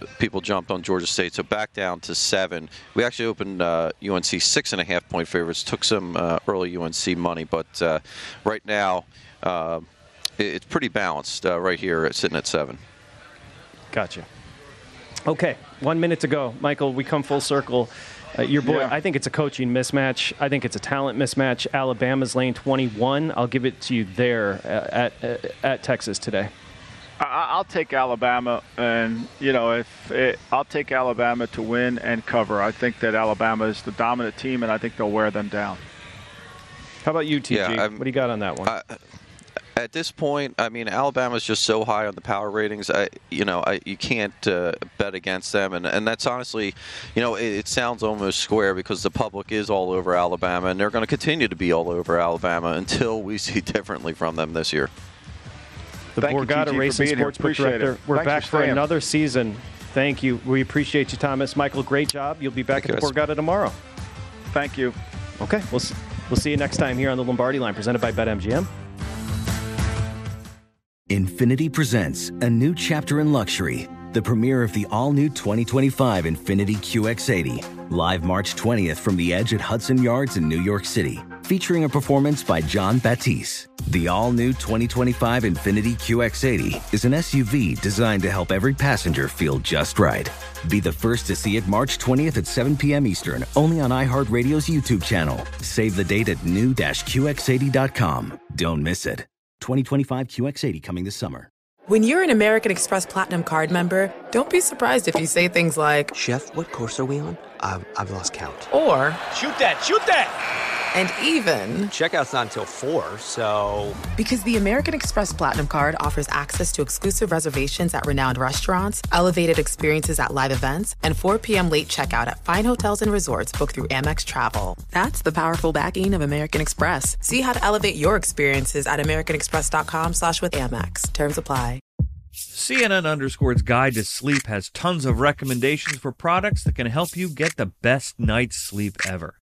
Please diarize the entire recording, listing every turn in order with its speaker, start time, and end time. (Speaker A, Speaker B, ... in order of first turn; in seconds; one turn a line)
Speaker A: 0.2-9.8
Speaker A: 10.4-12.8
Speaker B: 13.9-14.3
Speaker B: 15.2-26.5
Speaker C: 18.6-18.9
Speaker C: 27.2-35.8
Speaker B: 37.0-38.7
Speaker A: 37.5-38.0
Speaker A: 38.6-39.0
Speaker A: 39.8-54.9
Speaker C: 56.2-58.8
Speaker B: 56.2-63.8
Speaker A: 62.7-63.1
Speaker C: 64.5-65.0
Speaker B: 65.4-68.7
Speaker D: 71.1-101.5
Speaker E: 101.9-106.1
Speaker F: 106.1-108.7
Speaker E: 108.7-109.2
Speaker G: 109.3-110.4
Speaker E: 110.9-111.9
Speaker G: 111.9-114.0
Speaker E: 114.2-131.8
Speaker H: 132.5-139.3